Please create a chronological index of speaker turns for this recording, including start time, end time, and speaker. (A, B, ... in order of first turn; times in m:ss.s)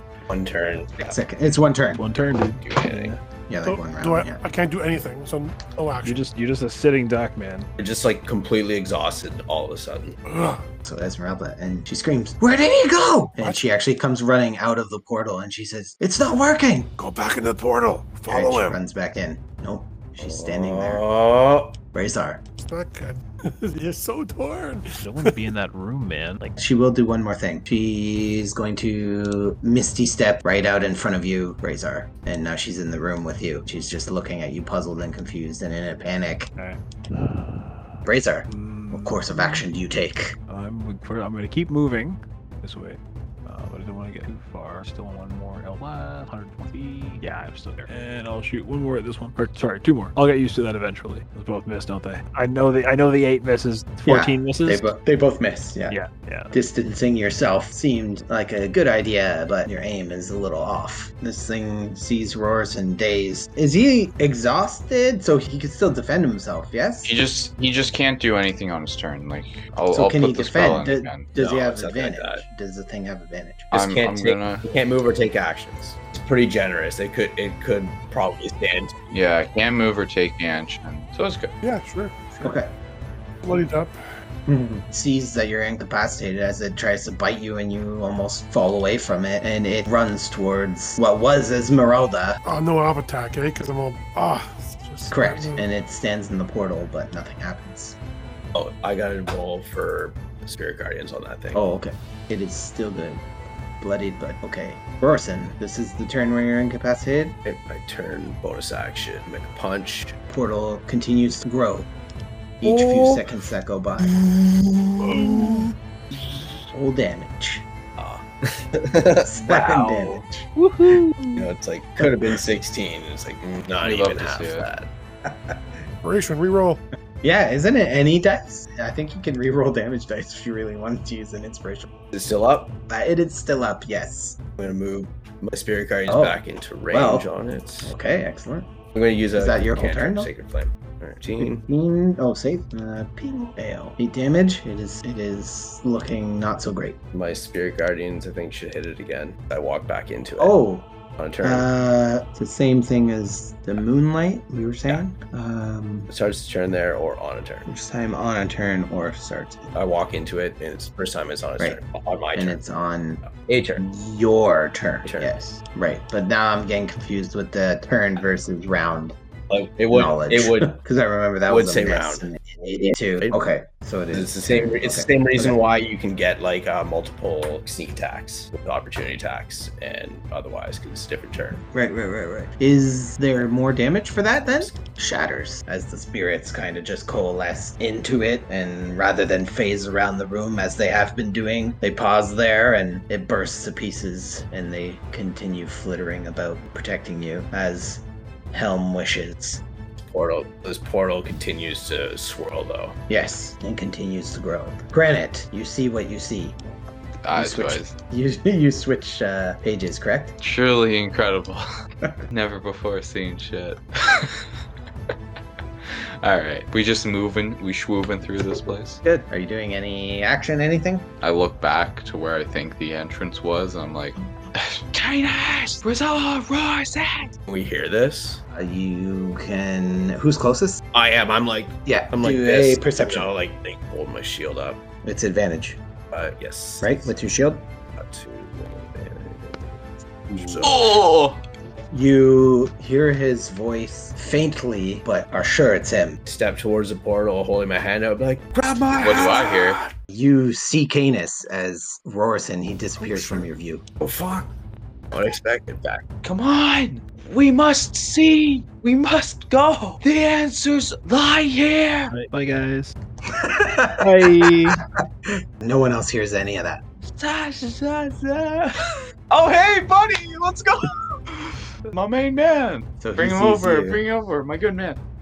0:00.3-0:01.2 A
0:01.0-0:02.0 B
0:02.0-0:03.2 C
0:02.6-0:03.1 A
0:03.5-0:04.4 B
0:03.6-0:06.2 D
0:06.0-0:07.7 C
0:07.8-0:10.2 A
0:10.2-0:10.6 D
0:10.8-0:16.9 B
0:17.0-0:18.8 D
0:18.3-0:21.0 B
0:20.2-0:21.7 A
0:21.9-0:22.4 B
0:22.6-0:25.3 D
0:25.0-0:26.5 C
0:26.6-0:36.5 B
0:36.6-0:38.0 C
0:38.0-0:40.4 B
0:38.5-0:39.6 C
0:40.5-0:54.9 C
0:54.0-0:56.0 B
0:55.9-0:56.5 C
0:56.5-1:07.2 B
1:07.0-1:11.3 E
1:09.9-1:13.7 B
1:11.4-1:12.4 A
1:13.7-1:14.6 E
1:13.7-1:19.0 A
1:19.1-1:21.5 E
1:21.6-1:22.1 D
1:22.4-1:22.7 B
1:23.4-1:24.0 D
1:24.5-1:32.4 B
1:32.4-1:35.7 D
1:35.1-1:38.0 B
1:38.5-1:41.6 A
1:41.5-1:43.2 B
1:43.8-1:47.4 B
1:47.4-1:50.2 A
1:50.3-1:51.9 B
1:52.6-1:54.2 B
1:52.6-1:53.1 A
1:54.0-1:55.7 A
1:56.7-1:57.6 B
1:58.0-2:00.4 A
1:59.0-2:00.3 B
2:00.8-2:01.2 C
2:01.3-2:04.9 A
2:03.8-2:04.7 E
2:06.0-2:06.8 D
2:07.2-2:11.9 B
2:12.1-2:12.7 A
2:12.9-2:14.4 B
2:14.6-2:17.9 A
2:16.1-2:17.3 B
2:17.8-2:18.7 B
2:18.9-2:21.6 A
2:19.3-2:20.3 B
2:21.4-2:27.0 B
2:27.1-2:30.6 A
2:30.4-2:30.9 B
2:31.2-2:31.7 A
2:31.4-2:36.1 B
2:36.1-2:37.7 A
2:37.7-2:39.7 B
2:39.7-2:42.6 A
2:42.3-2:43.2 B
2:43.2-2:43.8 A
2:43.8-2:49.2 B
2:45.0-2:45.4 A
2:49.5-2:50.8 A
2:49.9-2:55.6 B
2:51.5-2:52.2 A
2:54.1-3:01.6 A
3:01.5-3:19.6 B
3:20.0-3:23.0 A
3:23.1-3:26.6 B
3:27.2-3:27.9 E
3:27.3-3:30.3 B
3:30.4-3:31.6 E
3:32.3-3:34.5 E
3:35.9-3:39.0 E
3:39.3-3:41.1 B
3:41.2-3:47.3 E
3:47.5-3:48.4 A
3:48.5-3:50.8 B
3:50.9-3:54.8 A
3:51.8-3:53.3 B
3:55.0-3:55.8 B
3:56.1-3:57.1 A
3:56.8-3:57.6 B
3:57.9-4:01.0 A
4:00.6-4:01.4 E
4:01.9-4:06.2 B
4:06.2-4:09.9 A
4:08.9-4:09.8 E
4:10.1-4:13.8 B
4:13.0-4:13.4 D
4:14.0-4:14.5 A
4:15.1-4:16.0 A
4:16.2-4:22.1 E
4:22.1-4:22.9 C
4:23.3-4:24.6 B
4:24.0-4:24.8 C
4:25.3-4:26.8 B
4:27.1-4:35.0 E
4:33.0-4:34.0 B